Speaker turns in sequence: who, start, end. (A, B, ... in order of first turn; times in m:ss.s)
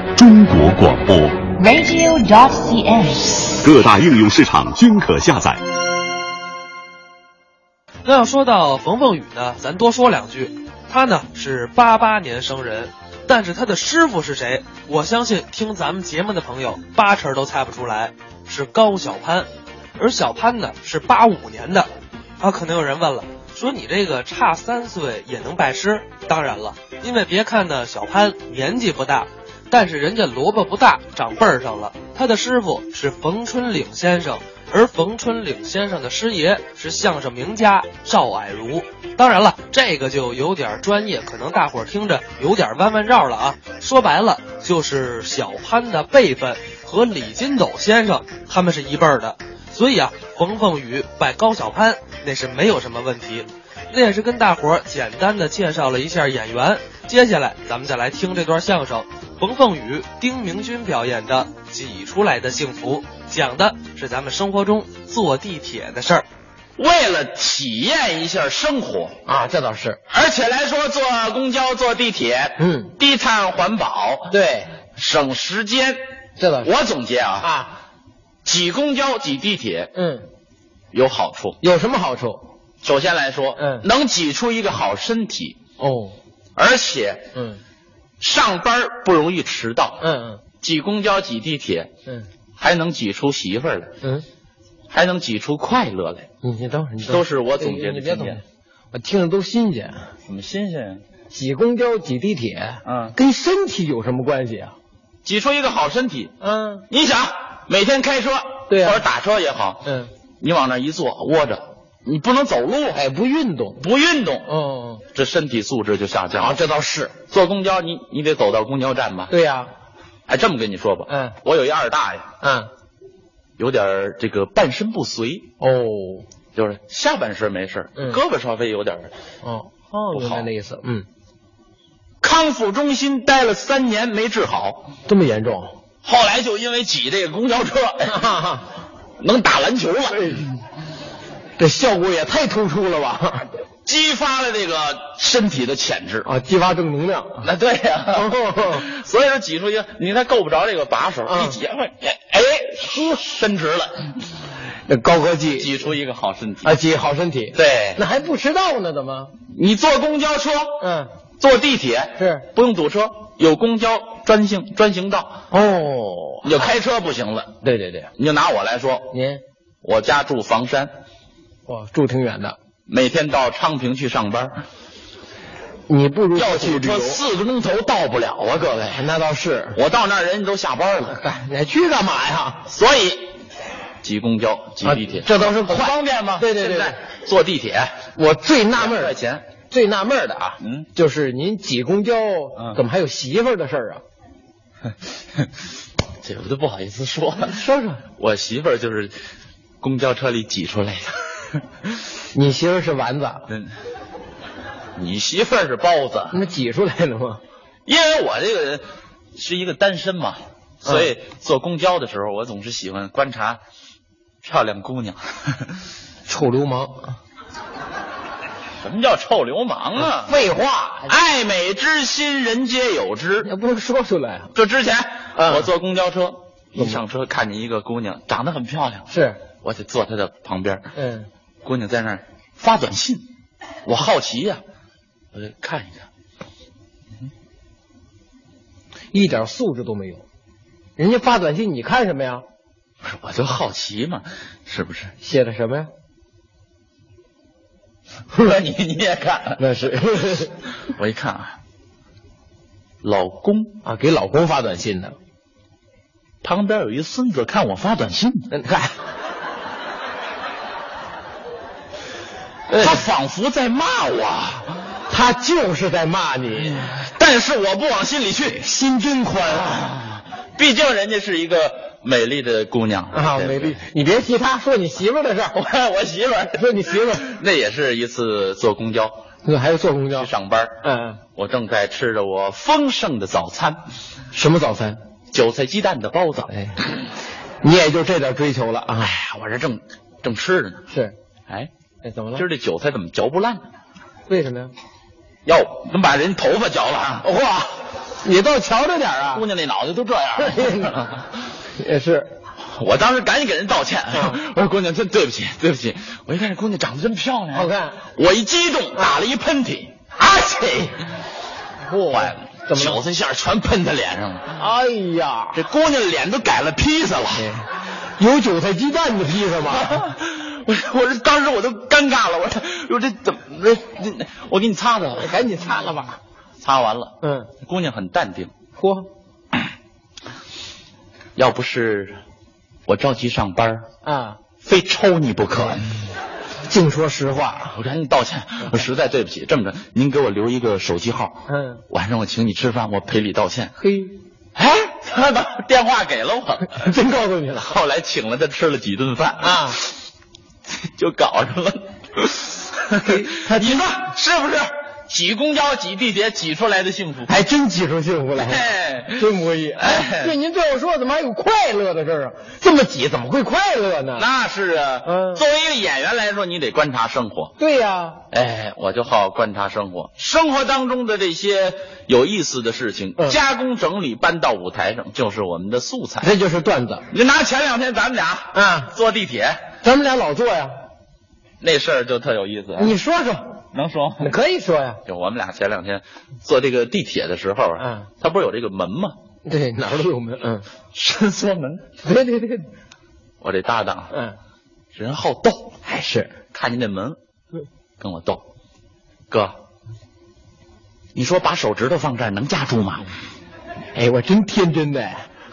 0:00.2-0:01.4 A
0:01.6-0:03.6 B
0:03.6-0:05.6 A
0:08.0-1:06.2 C
1:06.8-1:09.2 D
1:09.2-1:10.0 E
1:10.1-1:14.4 D
1:12.6-1:12.9 E
1:14.3-1:14.7 E
1:14.9-1:16.0 D
1:16.4-1:16.7 E
1:16.6-1:17.5 D
1:17.4-1:17.8 E
1:18.4-1:19.9 D
1:19.9-1:20.3 E
1:20.9-1:21.6 D
1:21.6-1:22.4 E
1:22.8-1:25.6 D
1:23.6-1:23.9 E
1:25.8-1:26.2 E
1:26.6-1:27.2 D
1:27.3-1:27.6 E
1:28.2-1:30.0 D
1:30.0-1:30.4 E
1:30.6-1:31.9 D
1:32.6-1:33.9 D
1:34.9-1:36.3 D
1:36.4-1:40.1 E
1:37.0-1:38.4 D
1:40.2-1:41.0 D
1:41.3-1:44.7 E
1:42.8-1:43.2 D
1:45.2-1:46.3 D
1:46.4-1:46.9 E
1:46.9-1:49.8 D
1:48.7-1:49.0 E
1:49.8-1:50.1 E
1:50.4-1:53.0 D
1:52.9-1:53.8 E
1:53.8-1:54.5 D
1:54.4-1:55.0 E
1:55.1-1:56.6 D
1:56.3-1:57.1 E
1:57.3-1:59.3 D
1:59.3-1:59.7 E
2:00.3-2:02.3 D
2:01.1-2:01.4 E
2:02.4-2:02.7 E
2:03.6-2:05.5 D
2:05.6-2:06.2 E
2:06.5-2:09.1 D
2:09.4-2:11.1 E
2:10.1-2:10.5 D
2:12.2-2:14.9 D
2:15.0-2:15.7 E
2:16.0-2:18.2 D
2:18.0-2:18.7 E
2:19.2-2:20.5 D
2:21.6-2:23.5 E
2:23.8-2:26.3 D
2:26.2-2:27.4 E
2:27.4-2:34.2 D
2:28.1-2:28.8 E
2:31.2-2:31.6 E
2:34.8-2:35.8 E
2:35.6-2:36.8 D
2:36.6-2:39.3 E
2:37.5-2:38.0 D
2:39.5-2:40.8 D
2:40.8-2:41.1 E
2:41.4-2:45.4 D
2:42.2-2:42.5 E
2:45.5-2:46.7 E
2:46.4-2:47.6 D
2:47.6-2:48.1 E
2:48.2-2:49.1 D
2:49.1-2:49.4 E
2:49.8-2:50.9 D
2:51.6-2:52.6 E
2:52.9-2:54.6 D
2:55.9-2:57.2 E
2:56.3-2:59.1 D
2:58.9-2:59.8 E
2:59.7-3:01.2 D
3:01.1-3:02.6 E
3:02.6-3:03.3 D
3:04.0-3:08.0 D
3:04.8-3:07.0 E
3:08.1-3:09.1 E
3:08.7-3:09.4 D
3:09.7-3:14.0 E
3:10.6-3:10.9 D
3:16.2-3:19.2 D
3:17.4-3:18.0 E
3:19.8-3:21.6 D
3:22.3-3:23.4 E
3:25.0-3:26.4 D
3:26.3-3:27.4 E
3:27.8-3:28.8 D
3:29.4-3:33.6 D
3:34.4-3:35.8 D
3:36.2-3:37.2 E
3:38.8-3:40.4 D
3:40.0-3:41.1 E
3:41.0-3:43.5 D
3:43.4-3:44.5 E
3:44.5-3:49.1 D
3:45.3-3:45.7 E
3:49.1-3:49.4 E
3:49.6-3:50.9 D
3:50.9-3:51.3 E
3:51.6-3:53.3 D
3:53.8-3:54.6 D
3:55.3-3:56.0 D
3:59.1-4:00.2 E
4:01.0-4:02.4 E
4:03.0-4:05.1 D
4:05.2-4:05.9 E
4:08.4-4:09.6 D
4:09.6-4:10.6 E
4:10.9-4:11.6 D
4:13.0-4:13.8 D
4:13.8-4:15.2 E
4:16.4-4:18.5 D
4:18.5-4:18.9 E
4:22.7-4:23.0 E
4:22.7-4:24.8 D
4:25.1-4:26.9 E
4:26.6-4:28.6 D
4:28.6-4:29.8 E
4:29.5-4:33.8 D
4:33.1-4:35.6 E
4:35.5-4:39.2 D
4:36.6-4:37.2 E
4:39.4-4:40.3 E
4:40.1-4:40.8 D
4:40.8-4:41.2 E
4:41.4-4:43.8 D
4:44.3-4:45.0 E
4:45.3-4:46.5 D
4:46.5-4:46.8 E
4:47.6-4:49.2 E
4:49.0-4:50.8 D
4:50.9-4:51.1 E
4:52.0-4:52.5 E
4:52.3-4:53.6 D
4:54.3-4:54.7 E
4:55.4-4:57.3 D
4:57.2-4:59.4 E
4:59.3-5:01.2 D
5:00.4-5:01.1 E
5:01.8-5:02.3 E
5:02.6-5:10.9 D
5:04.1-5:04.4 E
5:07.5-5:08.0 E
5:08.9-5:09.2 E
5:10.6-5:10.9 E
5:11.8-5:13.0 E
5:12.0-5:14.6 D
5:14.6-5:15.6 E
5:15.5-5:17.5 D
5:17.3-5:20.1 E
5:19.6-5:25.4 D
5:25.2-5:26.2 E
5:26.6-5:28.5 D
5:27.2-5:27.5 E
5:28.8-5:29.1 E
5:31.4-5:32.2 D
5:32.9-5:33.9 D
5:34.0-5:34.4 E
5:34.6-5:36.0 D
5:36.7-5:37.8 E
5:37.7-5:43.7 D
5:41.5-5:41.8 E
5:43.8-5:44.2 E
5:44.6-5:46.9 D
5:46.7-5:47.8 E
5:47.6-5:49.9 D
5:49.4-5:49.8 E
5:50.7-5:57.4 D
5:53.0-5:53.8 E
5:57.3-6:04.2 E
5:58.3-6:00.4 D
6:04.1-6:07.5 D
6:05.0-6:05.4 E
6:07.6-6:08.2 E
6:08.3-6:16.3 D
6:16.2-6:17.1 E
6:17.1-6:19.6 D
6:18.5-6:18.9 E
6:19.8-6:20.7 E
6:21.6-6:23.0 D
6:22.8-6:23.6 E
6:23.7-6:24.3 D
6:24.2-6:25.0 E
6:25.0-6:29.2 D
6:27.8-6:28.1 E
6:29.4-6:30.7 E
6:30.9-6:31.8 D
6:32.0-6:32.7 E
6:33.4-6:34.1 D
6:34.1-6:34.4 E
6:34.9-6:35.7 D
6:35.8-6:36.3 E
6:36.5-6:37.2 D
6:38.0-6:38.4 D
6:39.3-6:39.6 D
6:41.1-6:43.1 D
6:43.9-6:45.2 E